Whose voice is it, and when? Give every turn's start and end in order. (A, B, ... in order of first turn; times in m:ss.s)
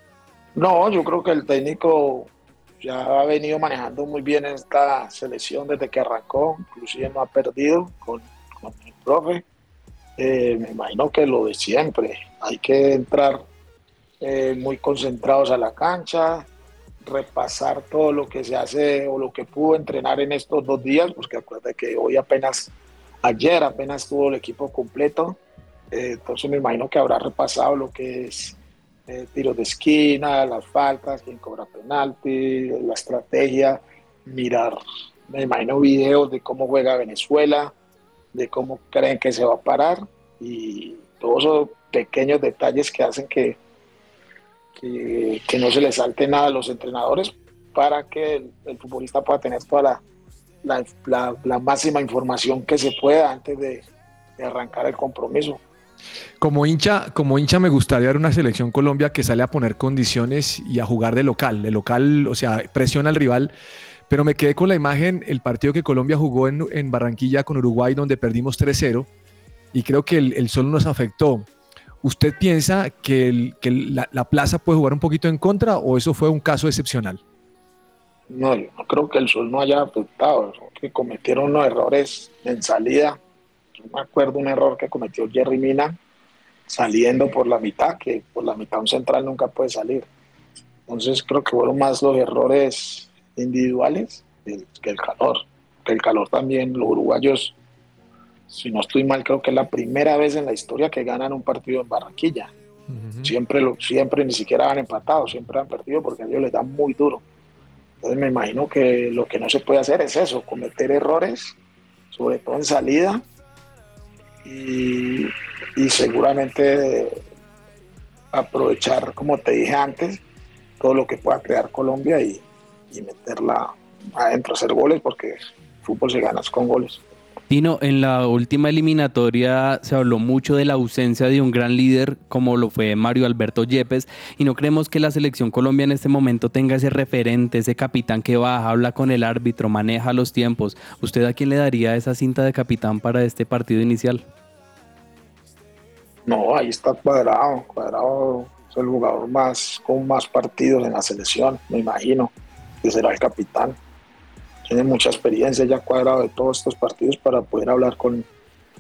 0:00.6-0:02.3 A
0:02.8-0:09.4 A
0:10.2-0:13.4 A
0:14.2-0:16.5 A
0:17.0-0:22.7 A
0:23.2-0:25.4 A
0:25.9-0:28.6 A
0:29.1-0:37.7 A
0:38.3-0:43.6 A
0:44.8-0:50.0 A
0:50.6-0:53.8 A
0:54.4-0:55.6 A
0:56.4-1:03.5 B
1:04.1-1:09.1 B
1:09.7-1:11.5 B
1:12.0-1:17.2 B
1:18.3-1:23.2 A
1:23.8-1:26.0 A
1:26.7-1:30.1 A
1:30.9-1:37.6 A
1:38.5-1:42.5 A
1:42.9-1:43.3 B
1:43.2-1:47.2 A
1:48.0-1:51.6 A
1:52.1-1:53.2 A
1:54.4-1:57.2 A
1:58.3-2:00.2 A
2:00.8-2:07.0 A
2:07.5-2:24.2 C
2:26.3-2:32.3 A
2:32.8-2:33.8 A
2:34.7-2:38.3 A